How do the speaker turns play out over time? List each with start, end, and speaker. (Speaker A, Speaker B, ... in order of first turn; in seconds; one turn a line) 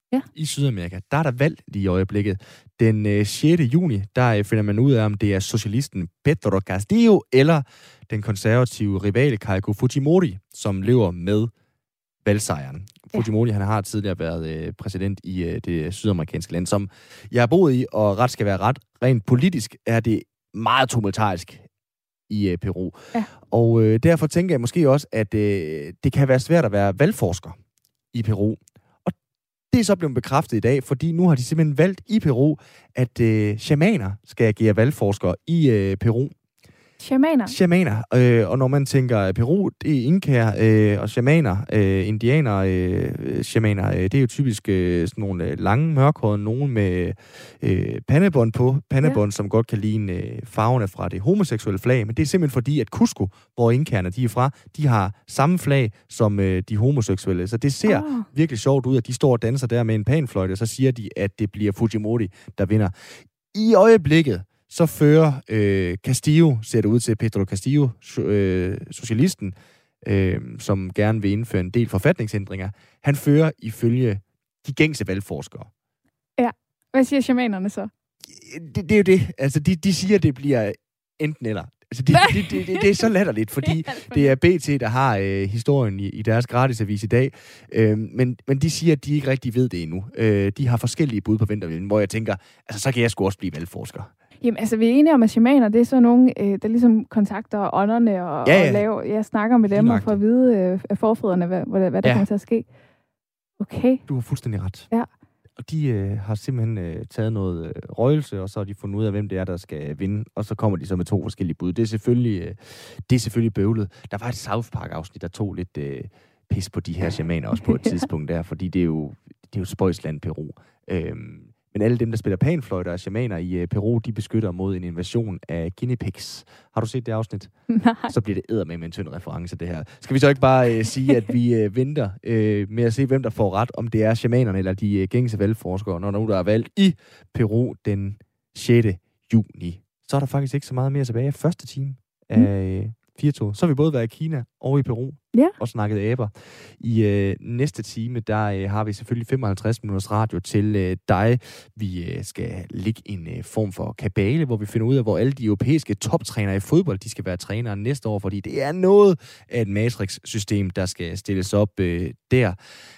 Speaker A: 0.3-11.5
Speaker A: 12.2-21.7
Speaker A: 22.3-27.6
Speaker A: 28.1-29.1
Speaker A: 29.7-36.3
Speaker B: 37.0-37.5
Speaker A: 37.5-75.7
Speaker B: 57.9-58.3
Speaker B: 76.4-77.9
Speaker A: 78.3-94.1
Speaker B: 82.3-82.7
Speaker B: 83.7-84.3
Speaker B: 94.4-102.7
Speaker A: 98.4-98.9
Speaker A: 99.7-100.2
Speaker A: 102.0-102.3
Speaker B: 103.6-104.1
Speaker A: 104.1-104.9
Speaker A: 105.6-162.6
Speaker B: 127.7-128.1